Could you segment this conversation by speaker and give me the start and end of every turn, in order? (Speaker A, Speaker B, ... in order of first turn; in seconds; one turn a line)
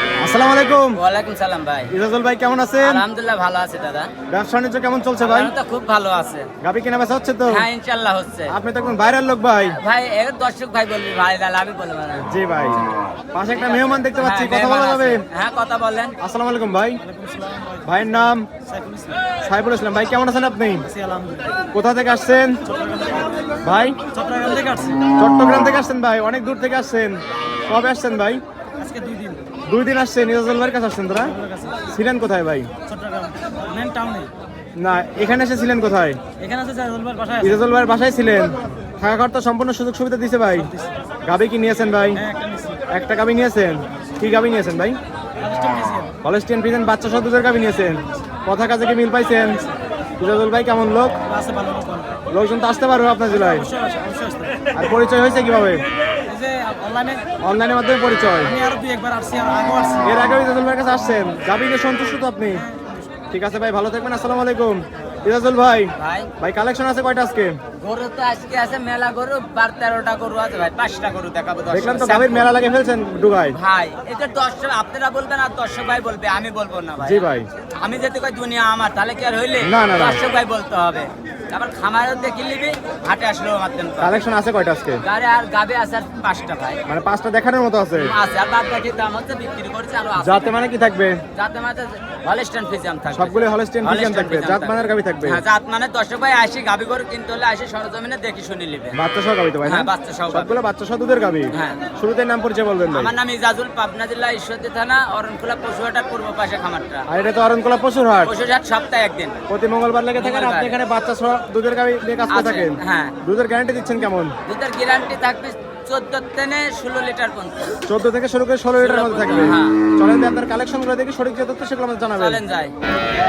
Speaker A: 0.2-1.0
Speaker B: 0.9-1.9
Speaker A: 1.9-3.0
Speaker B: 2.8-4.1
Speaker A: 4.3-5.5
Speaker B: 5.2-6.5
Speaker A: 6.6-7.7
Speaker B: 7.5-8.6
Speaker A: 8.5-9.8
Speaker B: 9.7-12.3
Speaker A: 12.3-12.8
Speaker A: 13.3-15.2
Speaker B: 13.5-16.2
Speaker A: 16.2-17.0
Speaker C: 17.1-17.8
Speaker A: 17.8-18.5
Speaker C: 18.7-19.1
Speaker A: 19.4-20.9
Speaker C: 20.9-21.5
Speaker A: 21.7-22.6
Speaker C: 22.7-23.3
Speaker A: 23.6-24.0
Speaker C: 24.1-25.1
Speaker A: 25.1-28.4
Speaker C: 28.9-29.4
Speaker A: 29.7-31.4
Speaker C: 31.4-31.7
Speaker A: 31.9-32.7
Speaker C: 32.9-34.3
Speaker B: 33.8-34.3
Speaker A: 34.8-36.2
Speaker C: 36.4-37.4
Speaker A: 37.4-40.7
Speaker A: 41.2-42.2
Speaker C: 42.3-42.8
Speaker A: 42.9-45.0
Speaker C: 45.4-46.1
Speaker A: 46.2-49.6
Speaker A: 50.2-51.1
Speaker C: 51.3-52.2
Speaker A: 52.3-53.7
Speaker C: 53.7-54.7
Speaker A: 54.7-55.8
Speaker C: 56.3-57.3
Speaker A: 57.4-58.5
Speaker C: 58.5-60.1
Speaker A: 60.0-62.6
Speaker A: 63.3-67.6
Speaker B: 66.0-66.3
Speaker B: 67.8-72.5
Speaker A: 71.7-73.6
Speaker B: 73.5-77.3
Speaker A: 77.0-77.5
Speaker B: 77.8-84.2
Speaker A: 79.6-80.2
Speaker A: 84.0-85.0
Speaker B: 85.0-86.8
Speaker A: 86.9-88.1
Speaker B: 88.0-90.7
Speaker A: 90.2-91.2
Speaker B: 91.3-99.0
Speaker A: 93.1-95.4
Speaker A: 98.9-103.1
Speaker B: 99.6-100.5
Speaker B: 101.5-101.8
Speaker B: 102.9-107.1
Speaker A: 107.1-108.3
Speaker B: 108.2-109.4
Speaker A: 109.5-114.3
Speaker B: 110.2-110.8
Speaker B: 112.3-113.2
Speaker B: 114.5-117.8
Speaker A: 117.9-122.4
Speaker B: 118.8-119.8
Speaker B: 122.1-122.7